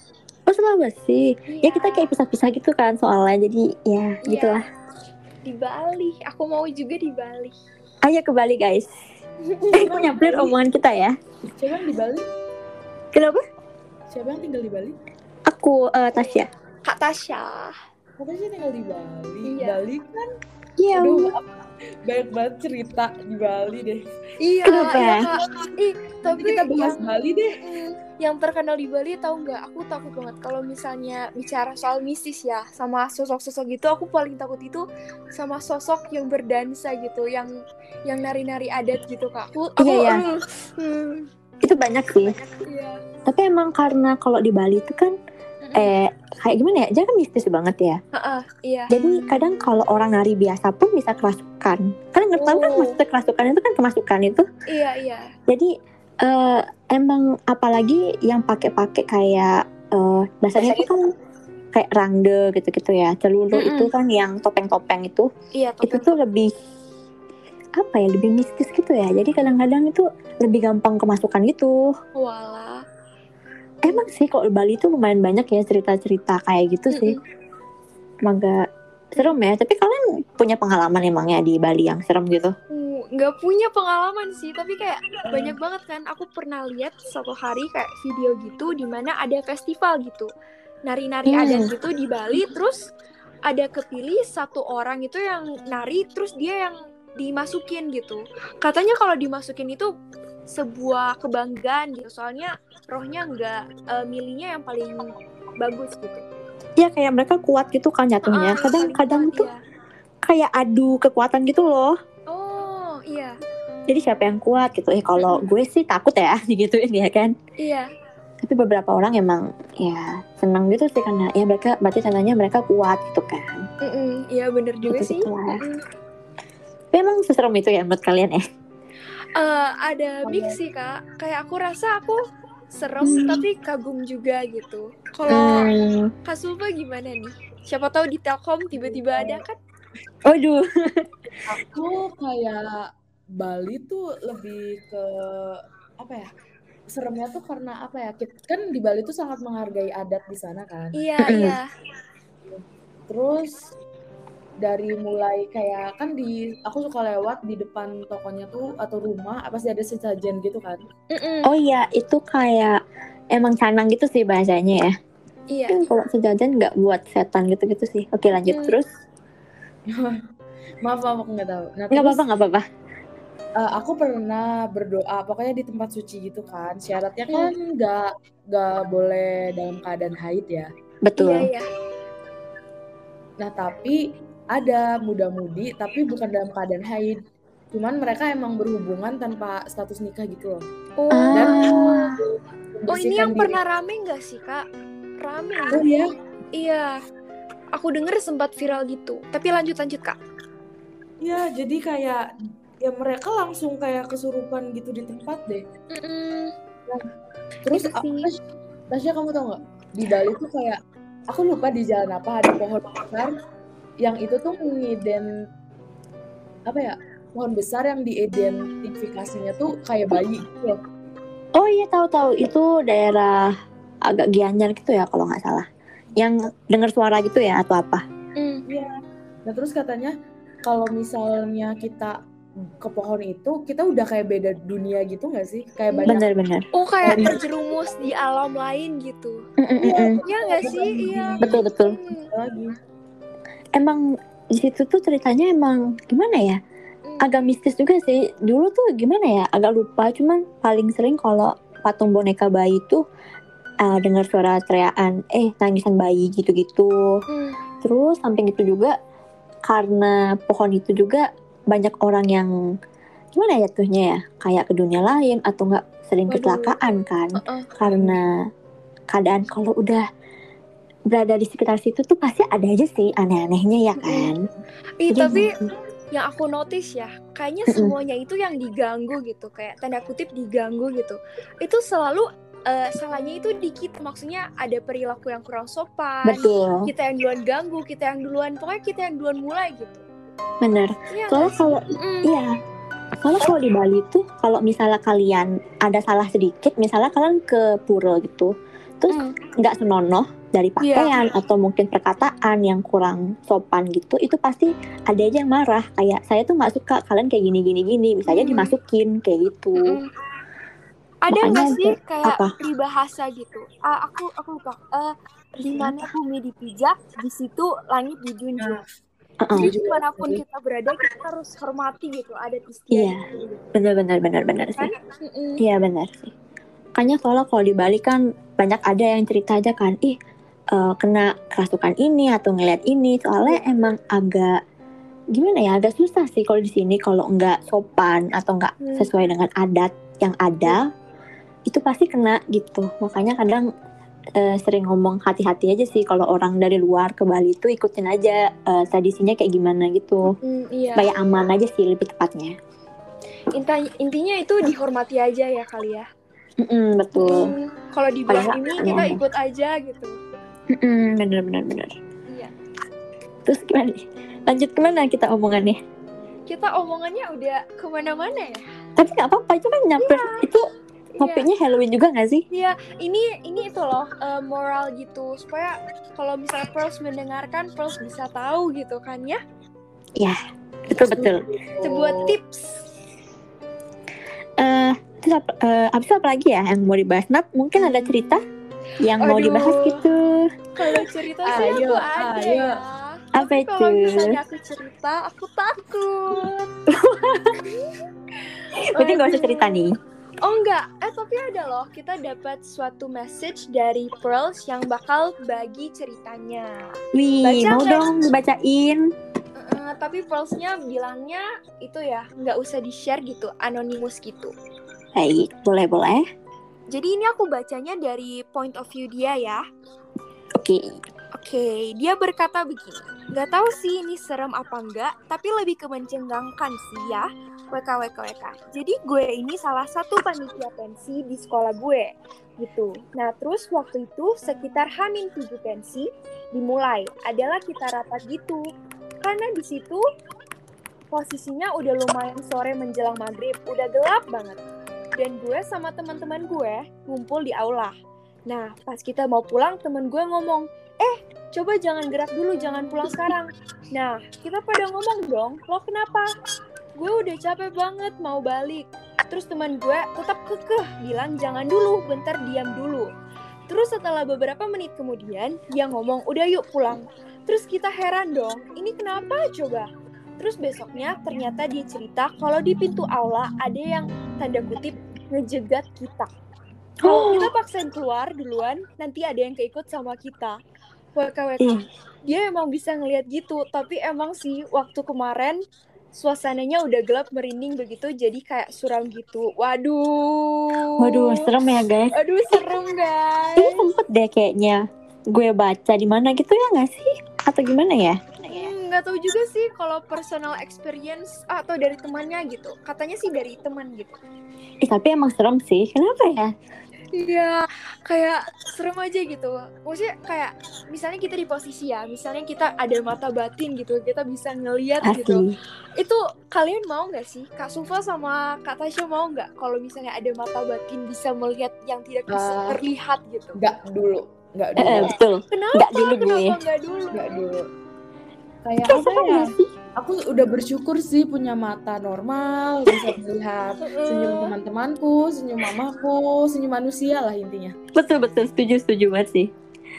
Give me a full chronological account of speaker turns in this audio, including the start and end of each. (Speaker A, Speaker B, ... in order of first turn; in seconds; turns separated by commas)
Speaker A: 0.5-4.6, Speaker B: 1.5-2.1, Speaker B: 4.3-4.6, Speaker B: 5.5-7.5, Speaker A: 8.0-8.9, Speaker B: 9.4-10.0, Speaker A: 9.7-11.1, Speaker C: 9.8-10.6, Speaker C: 11.6-12.2, Speaker A: 13.1-13.4, Speaker C: 14.1-14.9, Speaker A: 15.5-16.5, Speaker B: 16.9-17.8, Speaker C: 18.2-20.3, Speaker B: 19.5-19.8, Speaker A: 20.8-21.3, Speaker C: 20.9-24.0, Speaker B: 24.4-37.5, Speaker A: 24.6-25.3, Speaker C: 25.3-25.7, Speaker C: 26.2-27.6, Speaker B: 38.1-41.3, Speaker A: 39.8-40.2, Speaker A: 41.6-42.4, Speaker B: 42.3-43.0, Speaker A: 43.3-45.1, Speaker B: 45.6-45.9, Speaker A: 45.8-48.0, Speaker B: 48.2-48.9, Speaker A: 48.9-54.5, Speaker B: 52.3-53.0, Speaker B: 54.7-55.3, Speaker A: 56.2-61.1, Speaker B: 60.6-60.9, Speaker A: 61.7-65.3, Speaker B: 63.5-63.9, Speaker B: 65.5-66.2, Speaker A: 65.8-66.5, Speaker A: 67.8-71.9, Speaker B: 72.2-72.8, Speaker A: 73.8-77.2, Speaker B: 76.9-77.2, Speaker A: 78.2-78.6, Speaker A: 79.1-82.5, Speaker B: 82.7-90.3, Speaker B: 90.9-92.8, Speaker A: 91.3-91.7, Speaker B: 93.5-99.9, Speaker B: 100.5-106.2, Speaker A: 106.8-109.5, Speaker B: 108.3-109.6, Speaker A: 110.3-111.9, Speaker B: 112.3-113.4, Speaker A: 113.9-117.3, Speaker B: 115.2-115.5, Speaker B: 117.6-117.9, Speaker A: 118.4-123.6, Speaker B: 123.8-125.8, Speaker A: 124.9-125.6, Speaker A: 126.9-128.4, Speaker B: 129.3-132.2, Speaker C: 130.2-130.6, Speaker B: 132.7-135.7, Speaker A: 133.0-133.4, Speaker A: 135.3-136.1, Speaker B: 136.2-139.6, Speaker C: 138.7-139.4, Speaker A: 140.3-141.1, Speaker C: 141.5-142.8, Speaker C: 143.4-146.3, Speaker C: 146.9-151.0, Speaker B: 151.0-151.6, Speaker A: 151.2-151.6, Speaker C: 152.5-153.5, Speaker C: 154.6-160.8, Speaker B: 161.1-161.5, Speaker A: 161.4-162.8, Speaker A: 163.3-164.9, Speaker B: 165.5-165.8, Speaker A: 165.7-168.9, Speaker B: 168.5-168.8, Speaker C: 170.8-172.2, Speaker A: 171.9-172.7, Speaker C: 173.6-180.7, Speaker A: 181.1-181.5, Speaker B: 181.2-181.7, Speaker C: 183.4-184.0, Speaker C: 184.5-187.2, Speaker C: 187.7-190.6, Speaker B: 191.0-191.8, Speaker A: 191.1-192.2, Speaker C: 191.3-193.6, Speaker B: 192.9-194.7, Speaker B: 195.2-195.8, Speaker C: 195.7-196.1, Speaker B: 196.6-197.0, Speaker B: 197.8-200.2, Speaker C: 201.2-202.2, Speaker C: 202.8-205.6, Speaker B: 205.9-206.5, Speaker C: 207.7-208.4, Speaker B: 207.7-208.3, Speaker C: 208.9-210.8, Speaker C: 211.3-213.3, Speaker C: 214.0-215.3, Speaker C: 216.7-220.8, Speaker A: 221.6-223.5, Speaker A: 224.1-225.7, Speaker A: 226.2-228.0, Speaker B: 228.4-228.6, Speaker C: 228.7-228.9, Speaker C: 229.5-230.1, Speaker C: 230.7-232.2, Speaker C: 232.8-236.3, Speaker A: 236.1-236.7, Speaker B: 236.7-239.4, Speaker C: 237.0-237.4, Speaker A: 239.6-240.2, Speaker C: 239.8-241.6, Speaker B: 240.2-242.3, Speaker A: 241.4-242.0, Speaker C: 242.3-242.7, Speaker A: 243.8-244.0, Speaker A: 244.6-246.6, Speaker B: 247.1-247.5, Speaker A: 247.2-253.0, Speaker A: 253.8-256.9, Speaker B: 257.3-257.6, Speaker A: 257.8-258.9, Speaker A: 259.7-262.5, Speaker A: 263.4-268.3, Speaker B: 266.3-266.8, Speaker B: 267.4-267.7, Speaker A: 269.1-270.0, Speaker A: 271.1-274.4, Speaker B: 274.0-274.3, Speaker B: 275.0-275.6, Speaker A: 275.1-275.5, Speaker B: 276.1-290.0, Speaker A: 286.2-286.9, Speaker A: 290.6-292.5, Speaker B: 291.1-292.3, Speaker A: 293.2-310.0, Speaker B: 299.1-299.4, Speaker B: 300.8-301.2, Speaker B: 308.3-308.7, Speaker B: 309.8-310.1, Speaker B: 311.3-318.8, Speaker A: 311.3-312.5, Speaker A: 315.6-316.1, Speaker A: 319.4-319.7, Speaker C: 319.6-320.4, Speaker B: 319.6-323.3, Speaker A: 322.9-323.2, Speaker A: 323.8-324.9, Speaker B: 324.8-325.6, Speaker A: 325.6-326.3, Speaker A: 327.0-330.2, Speaker A: 330.7-334.6, Speaker A: 335.3-340.8, Speaker B: 338.8-339.1, Speaker A: 341.7-343.7, Speaker A: 344.4-350.4, Speaker B: 350.4-351.1, Speaker A: 351.0-352.5, Speaker B: 353.5-356.1, Speaker A: 356.6-357.5, Speaker B: 357.2-360.1, Speaker A: 358.3-359.2, Speaker A: 360.7-361.9, Speaker A: 363.4-365.8, Speaker B: 366.5-368.6, Speaker A: 369.0-370.7, Speaker B: 370.0-370.4, Speaker B: 371.2-371.5, Speaker A: 371.2-372.4, Speaker B: 372.5-379.4, Speaker A: 380.9-381.4, Speaker C: 380.9-382.3, Speaker B: 381.8-382.8, Speaker A: 384.6-388.4, Speaker B: 387.8-388.1, Speaker A: 389.0-390.5, Speaker B: 389.2-390.0, Speaker B: 390.8-396.7, Speaker C: 391.4-392.8, Speaker A: 393.4-394.4, Speaker A: 396.9-397.6, Speaker B: 397.7-397.9, Speaker A: 398.8-399.9, Speaker B: 398.9-399.7, Speaker B: 400.4-406.7, Speaker A: 407.1-409.0, Speaker B: 407.4-408.1, Speaker B: 409.6-414.5, Speaker A: 415.2-416.2, Speaker B: 416.9-419.6, Speaker A: 420.6-420.8, Speaker B: 421.4-438.6, Speaker B: 439.2-440.0, Speaker B: 441.1-444.6, Speaker B: 445.2-447.9, Speaker B: 448.5-456.3, Speaker B: 457.0-463.1, Speaker B: 463.7-469.9, Speaker B: 470.4-476.3, Speaker A: 477.0-477.5, Speaker B: 477.0-480.6, Speaker B: 481.2-485.6, Speaker A: 481.6-481.8, Speaker B: 486.1-491.4, Speaker A: 491.0-492.6, Speaker B: 492.1-493.9, Speaker A: 493.6-498.7, Speaker B: 498.5-504.2, Speaker A: 504.8-506.5, Speaker B: 507.2-515.4, Speaker A: 515.0-515.5, Speaker B: 516.0-523.6, Speaker C: 522.3-522.8, Speaker C: 523.6-525.1, Speaker A: 524.8-526.6, Speaker B: 525.5-527.5, Speaker C: 527.1-527.7, Speaker C: 528.7-537.8, Speaker A: 528.9-529.7, Speaker B: 533.8-534.5, Speaker A: 538.0-539.5